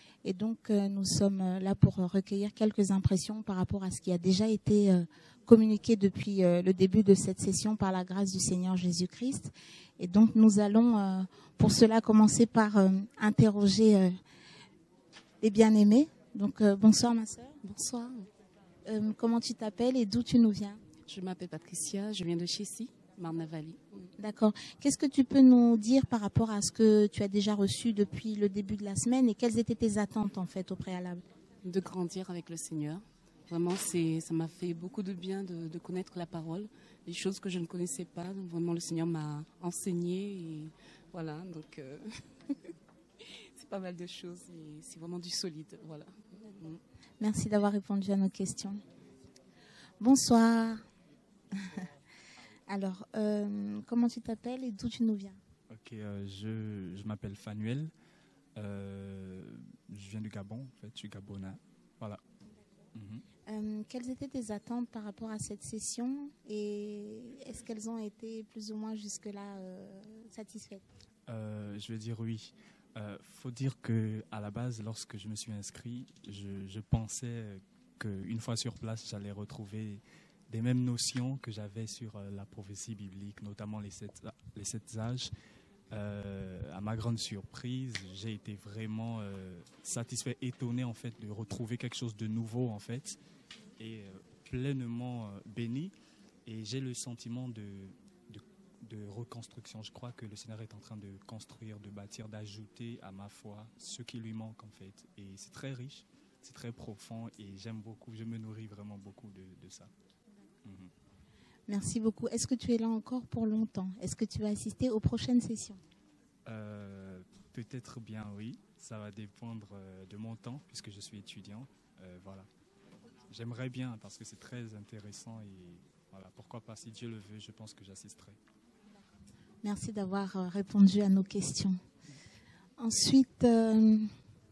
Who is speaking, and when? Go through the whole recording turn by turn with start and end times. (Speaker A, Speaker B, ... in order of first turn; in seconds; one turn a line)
Speaker A: 0.2-14.2
Speaker A: 15.4-17.6
Speaker B: 17.6-18.3
Speaker A: 18.9-20.8
Speaker B: 21.1-24.1
Speaker A: 24.2-31.2
Speaker B: 31.6-42.5
Speaker B: 43.3-46.8
Speaker A: 47.2-48.8
Speaker A: 50.0-50.8
Speaker A: 51.5-51.9
Speaker A: 52.7-55.4
Speaker C: 55.7-57.9
Speaker C: 58.6-62.2
Speaker C: 63.0-63.3
Speaker A: 63.5-70.8
Speaker C: 71.3-85.3
Speaker C: 85.9-93.2
Speaker C: 93.8-95.9
Speaker C: 96.5-109.9
Speaker C: 110.7-110.9
Speaker A: 111.7-115.8
Speaker C: 116.5-122.5
Speaker C: 123.3-128.4
Speaker A: 129.6-131.8
Speaker A: 132.8-134.1